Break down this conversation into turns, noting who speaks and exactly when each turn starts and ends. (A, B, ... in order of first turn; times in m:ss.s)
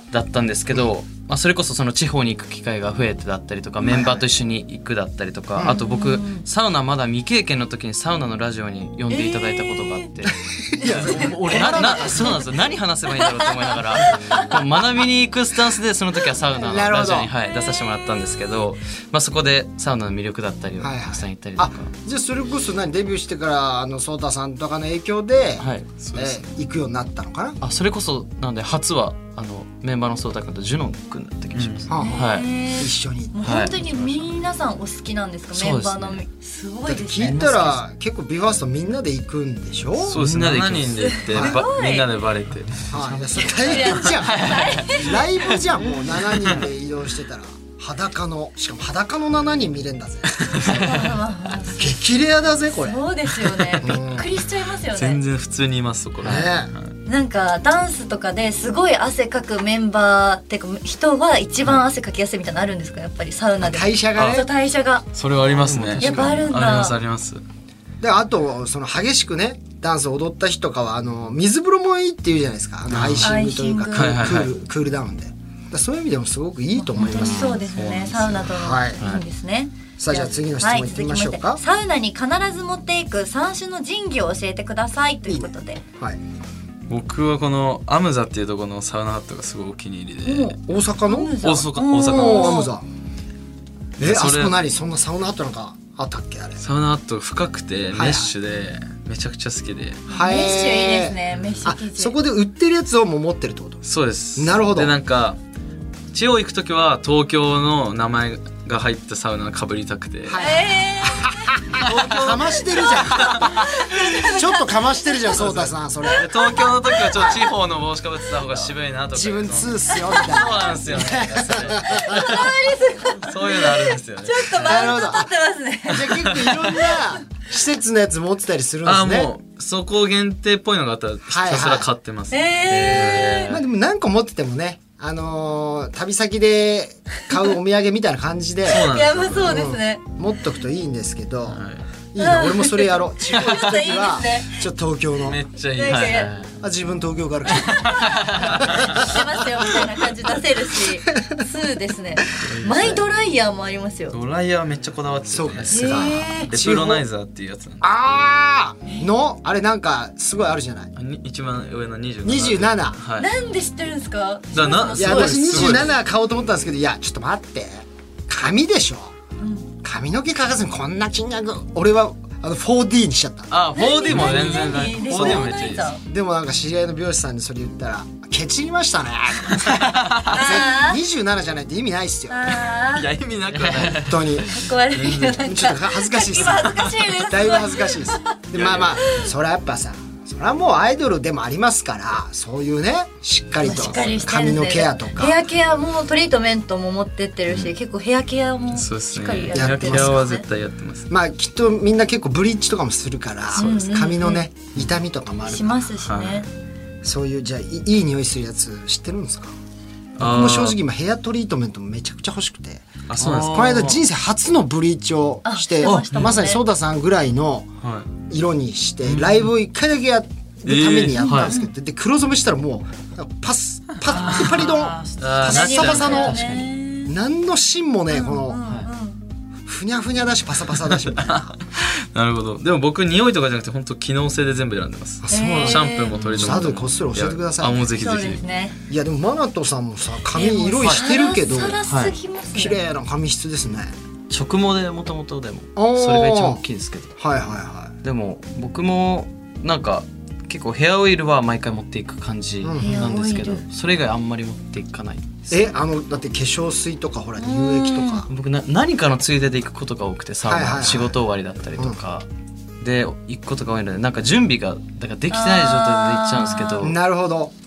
0:00.1-0:21.9 A
0:03.8-0:04.3 B
0:05.6-0:05.8 B
0:05.6-0:06.4 C
0:09.1-0:10.1 C
0:10.5-0:12.4 B
0:10.8-0:12.3 C
0:13.2-0:14.4 C
0:16.6-0:17.3 B
0:20.8-0:27.6 B
0:25.6-0:25.9 A
0:26.0-0:26.4 D
0:27.6-0:32.5 A
0:31.5-0:31.9 D
0:31.9-0:33.6 B
0:32.0-0:37.5 C
0:33.4-0:34.2 A
0:35.5-0:36.2 A
0:36.8-0:40.2 B
0:37.2-0:37.8 A
0:40.0-0:43.2 D
0:40.1-0:41.6 A
0:40.9-0:42.1 C
0:41.3-0:41.6 B
0:42.8-0:44.7 A
0:42.9-0:53.1 B
0:43.5-0:45.6 C
0:43.7-0:44.5 D
0:50.4-0:51.0 D
0:50.7-0:52.0 C
0:52.7-0:55.2 C
0:53.5-0:54.0 D
0:53.7-0:54.3 B
0:54.9-0:56.9 D
0:56.2-0:56.5 A
0:56.2-0:56.7 B
0:57.0-1:05.1 C
1:03.6-1:04.5 B
1:04.1-1:04.5 D
1:05.1-1:07.4 D
1:05.4-1:06.5 A
1:06.0-1:07.0 C
1:08.0-1:17.6 B
1:12.9-1:13.3 D
1:13.2-1:14.3 C
1:13.9-1:14.5 D
1:16.7-1:25.8 C
1:17.0-1:18.5 D
1:18.4-1:19.0 B
1:20.0-1:21.6 B
1:25.3-1:26.2 B
1:26.9-1:30.6 D
1:30.2-1:32.7 C
1:30.6-1:31.4 B
1:31.4-1:32.7 D
1:31.9-1:32.8 B
1:34.0-1:34.6 D
1:34.0-1:36.6 B
1:36.6-1:40.3 D
1:37.9-1:38.3 B
1:40.1-1:42.2 C
1:40.1-1:43.8 B
1:41.3-1:41.7 D
1:43.8-1:45.4 D
1:44.4-1:44.9 B
1:46.1-1:50.4 D
1:50.2-1:56.3 B
1:50.4-1:51.6 C
1:51.8-1:53.7 D
1:52.6-1:55.2 C
1:55.3-2:02.6 D
1:56.1-1:57.5 C
1:57.1-1:57.5 B
1:58.6-2:02.5 B
1:59.9-2:00.6 C
2:01.7-2:07.2 C
2:03.2-2:05.0 D
2:04.5-2:05.3 B
2:05.8-2:09.3 B
2:06.0-2:06.7 D
2:08.8-2:13.6 D
2:11.3-2:11.9 B
2:12.3-2:13.5 C
2:13.5-2:21.6 B
2:18.6-2:19.6 D
2:18.8-2:20.1 C
2:21.5-2:21.8 D
2:22.1-2:25.4 B
2:22.2-2:24.6 C
2:25.2-2:26.3 D
2:25.7-2:26.3 C
2:25.8-2:26.5 A
2:26.6-2:29.2 B
2:27.5-2:34.2 C
2:27.6-2:29.1 D
2:32.4-2:33.0 D
2:34.1-2:38.0 D
2:35.3-2:37.0 B
2:35.7-2:36.5 C
2:37.8-2:40.9 B
2:41.0-2:43.3 D
2:42.2-2:43.0 B
2:43.2-2:45.8 C
2:44.5-2:46.0 D
2:44.9-2:49.1 B
2:49.4-2:49.7 C
2:49.8-2:53.5 B
2:53.5-2:55.9 D
2:53.7-2:56.0 C
2:54.1-2:54.6 B
2:55.1-2:55.4 B
2:56.0-3:02.6 B
2:59.6-3:00.4 D
3:00.3-3:01.0 C
3:02.3-3:03.1 C
3:02.9-3:05.3 D
3:03.5-3:04.0 A
3:03.8-3:04.6 B
3:04.4-3:08.4 C
3:05.2-3:15.4 B
3:06.4-3:06.9 D
3:08.6-3:09.0 D
3:09.0-3:09.2 C
3:13.6-3:20.4 C
3:18.7-3:21.1 D
3:19.5-3:20.2 B
3:21.1-3:26.0 B
3:23.5-3:24.5 C
3:23.6-3:23.8 D
3:25.5-3:26.5 C
3:26.0-3:26.5 D
3:27.0-3:29.5 B
3:30.2-3:30.8 D
3:30.2-3:37.7 B
3:33.1-3:34.0 D
3:33.2-3:34.0 A
3:35.4-3:36.6 C
3:35.8-3:36.4 A
3:38.3-3:46.5 B
3:40.6-3:41.3 D
3:41.2-3:41.7 C
3:41.2-3:41.5 A
3:44.0-3:46.4 D
3:45.2-3:46.7 A
3:45.5-3:47.1 C
3:47.0-3:48.6 B
3:48.1-3:49.2 C
3:48.6-3:48.9 A
3:49.6-3:51.5 B
3:51.0-3:58.4 D
3:55.2-3:57.9 B
3:55.3-3:56.1 C
3:56.2-3:56.7 A
3:58.0-3:58.8 C
3:58.9-4:01.8 B
4:00.3-4:02.8 C
4:01.9-4:02.2 A
4:02.5-4:03.9 B
4:04.3-4:07.2 A
4:05.8-4:06.6 B
4:07.2-4:07.9 B
4:08.0-4:15.6 A
4:12.6-4:13.3 B
4:12.8-4:13.6 C
4:15.5-4:18.3 B
4:17.4-4:18.2 C
4:18.3-4:22.2 A
4:20.4-4:21.2 B
4:22.8-4:27.0 A
4:25.3-4:26.9 C
4:26.8-4:27.5 B